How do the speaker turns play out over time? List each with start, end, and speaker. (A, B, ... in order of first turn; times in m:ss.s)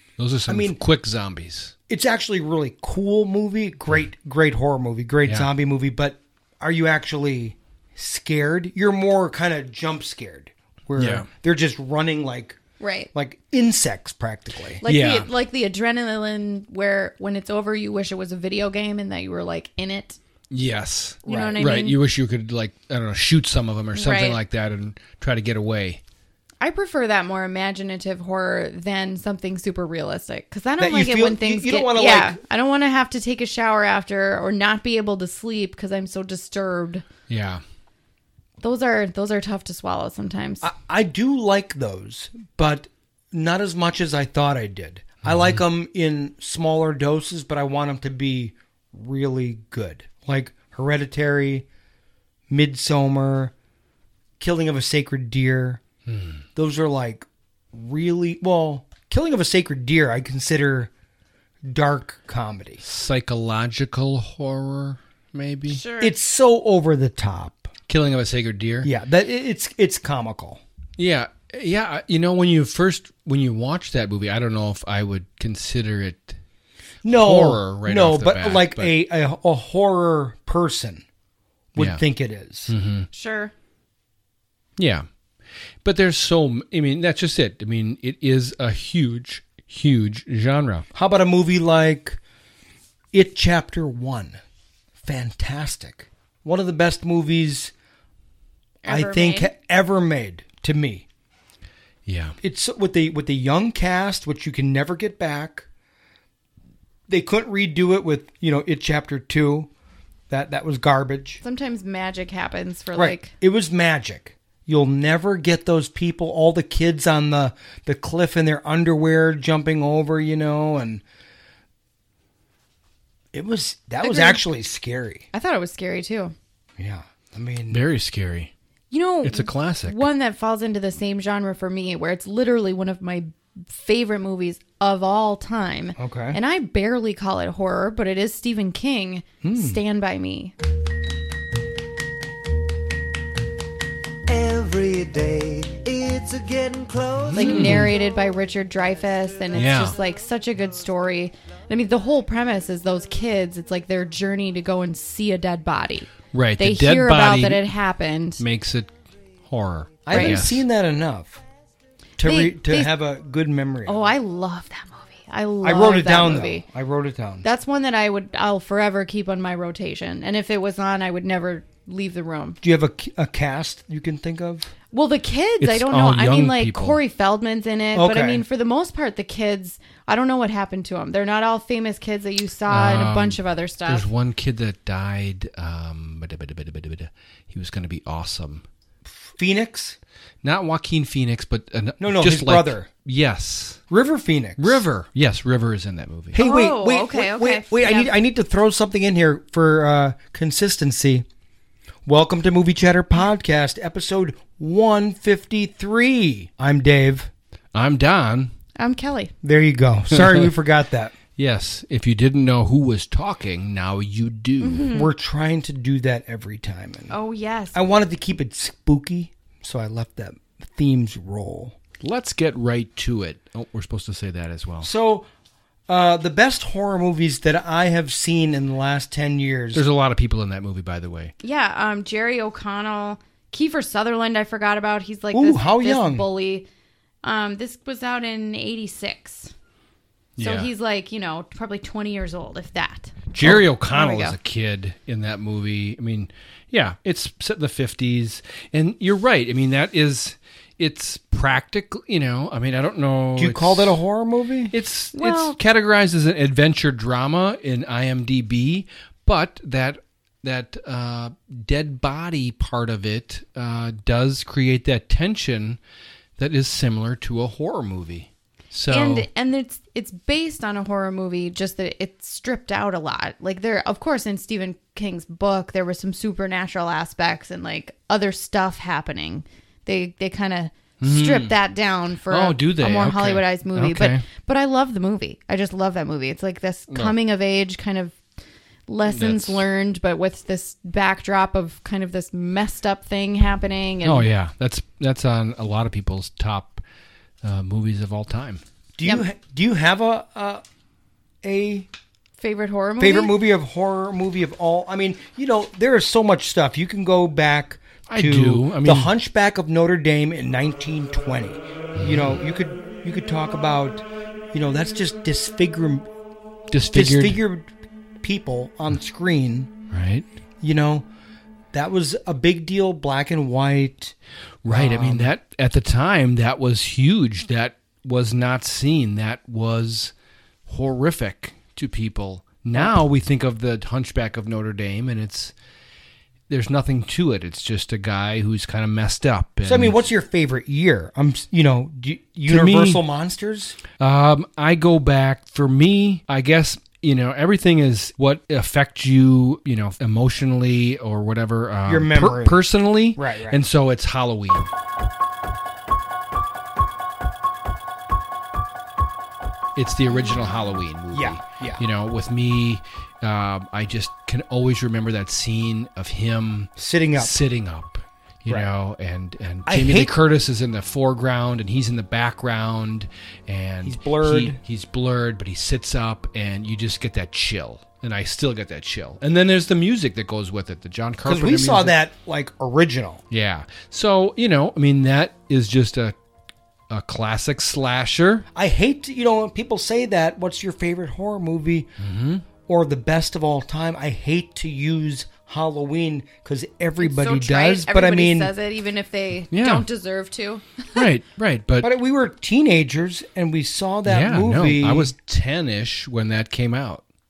0:00.2-0:01.7 A
0:00.5-0:00.8 B
0:01.9-0:12.6 B
0:11.0-0:11.3 A
0:12.8-0:13.1 C
0:13.1-0:14.8 B
0:14.8-0:20.2 C
0:14.8-0:15.3 A
0:20.5-0:26.0 A
0:21.2-0:22.0 C
0:21.2-0:21.5 B
0:23.9-0:24.4 C
0:26.6-0:37.0 C
0:30.8-0:32.4 B
0:37.3-0:37.6 A
0:38.6-0:40.7 C
0:40.6-0:51.6 B
0:45.2-0:45.6 A
0:52.5-0:53.5 B
0:54.4-0:55.8 B
0:56.1-0:56.4 A
0:56.5-1:00.9 B
1:01.6-1:02.8 B
1:02.8-1:05.8 A
1:05.7-1:06.1 C
1:06.0-1:07.7 B
1:07.9-1:08.9 A
1:08.8-1:10.6 B
1:11.0-1:16.4 A
1:17.0-1:21.0 B
1:17.0-1:18.9 A
1:21.7-1:22.7 B
1:21.8-1:22.0 A
1:22.7-1:23.1 A
1:23.1-1:23.5 C
1:24.8-1:25.0 A
1:25.8-1:30.9 A
1:30.9-1:32.2 B
1:33.1-1:34.4 B
1:35.0-1:37.7 B
1:38.8-1:39.5 C
1:38.8-1:41.0 B
1:42.0-1:42.4 A
1:42.4-1:45.6 B
1:47.1-1:49.7 B
1:50.3-1:51.4 B
1:51.4-1:53.3 C
1:52.9-2:01.0 B
2:03.3-2:05.3 B
2:04.0-2:04.4 C
2:05.3-2:06.3 C
2:06.8-2:07.8 B
2:07.7-2:08.5 A
2:08.9-2:20.5 C
2:09.2-2:10.0 A
2:16.0-2:16.4 B
2:19.4-2:19.8 B
2:24.3-2:27.8 D
2:27.2-2:27.9 A
2:27.3-2:38.4 C
2:29.5-2:30.0 A
2:36.3-2:37.7 A
2:38.4-2:38.9 A
2:39.4-2:40.6 A
2:40.0-2:41.4 B
2:40.1-2:40.4 C
2:42.2-2:44.1 B
2:42.2-2:42.9 C
2:43.8-2:46.6 C
2:45.6-2:47.4 B
2:47.4-2:52.6 C
2:52.6-2:54.7 B
2:54.9-3:04.1 C
2:55.6-2:57.0 A
2:57.9-2:58.4 B
3:02.7-3:08.6 A
3:09.4-3:10.0 B
3:10.4-3:13.8 A
3:12.0-3:12.9 B
3:13.9-3:14.8 B
3:14.6-3:16.4 A
3:16.3-3:21.2 B
3:16.4-3:18.1 C
3:22.0-3:27.3 B
3:27.7-3:28.5 A
3:28.8-3:29.3 C
3:29.4-3:31.1 B
3:30.1-3:30.5 A
3:31.4-3:34.9 A
3:34.6-3:35.1 C
3:34.9-3:37.1 B
3:37.1-3:37.8 C
3:37.7-3:41.8 B
3:42.0-3:44.9 A
3:44.8-3:45.2 B
3:45.9-3:49.8 B
3:49.7-3:51.3 A
3:51.4-3:56.6 C
3:55.3-3:56.2 B
3:57.2-3:59.5 C
4:00.4-4:00.7 A
4:00.4-4:03.4 C
4:03.3-4:14.0 A
4:03.9-4:04.3 C
4:13.4-4:14.7 B
4:14.7-4:25.8 A
4:15.1-4:15.6 C
4:26.4-4:29.3 A
4:28.9-4:48.2 C
4:41.0-4:41.5 A
4:42.3-4:44.2 A
4:46.9-4:47.1 A
4:48.9-4:54.3 C
4:49.0-4:49.6 A
4:54.0-4:56.8 A
4:57.4-4:58.6 A
4:59.0-5:00.6 B
5:01.4-5:01.9 B
5:02.4-5:03.3 C
5:03.0-5:16.0 B
5:08.1-5:09.1 A
5:12.0-5:12.4 A
5:16.7-5:17.4 A
5:16.9-5:17.7 B
5:18.2-5:19.7 B
5:19.9-5:20.3 A
5:20.6-5:21.1 B
5:21.7-5:24.1 B
5:24.6-5:30.1 A
5:24.6-5:25.3 B
5:30.7-5:35.5 A
5:36.5-5:40.0 A
5:39.6-5:43.8 B
5:42.5-5:43.0 A
5:44.0-5:54.7 A
5:51.8-5:53.6 B
5:59.8-6:22.0 A
6:01.1-6:01.8 B
6:06.8-6:07.4 B
6:09.6-6:10.2 B
6:13.8-6:14.6 B
6:21.2-6:23.2 B
6:23.3-6:26.2 A
6:26.9-6:28.4 A
6:28.5-6:31.9 B
6:32.0-6:32.4 A
6:32.6-6:38.5 B
6:37.0-6:41.1 C
6:39.5-6:39.9 A
6:40.9-6:41.9 A
6:41.8-6:45.1 B
6:44.0-6:47.0 A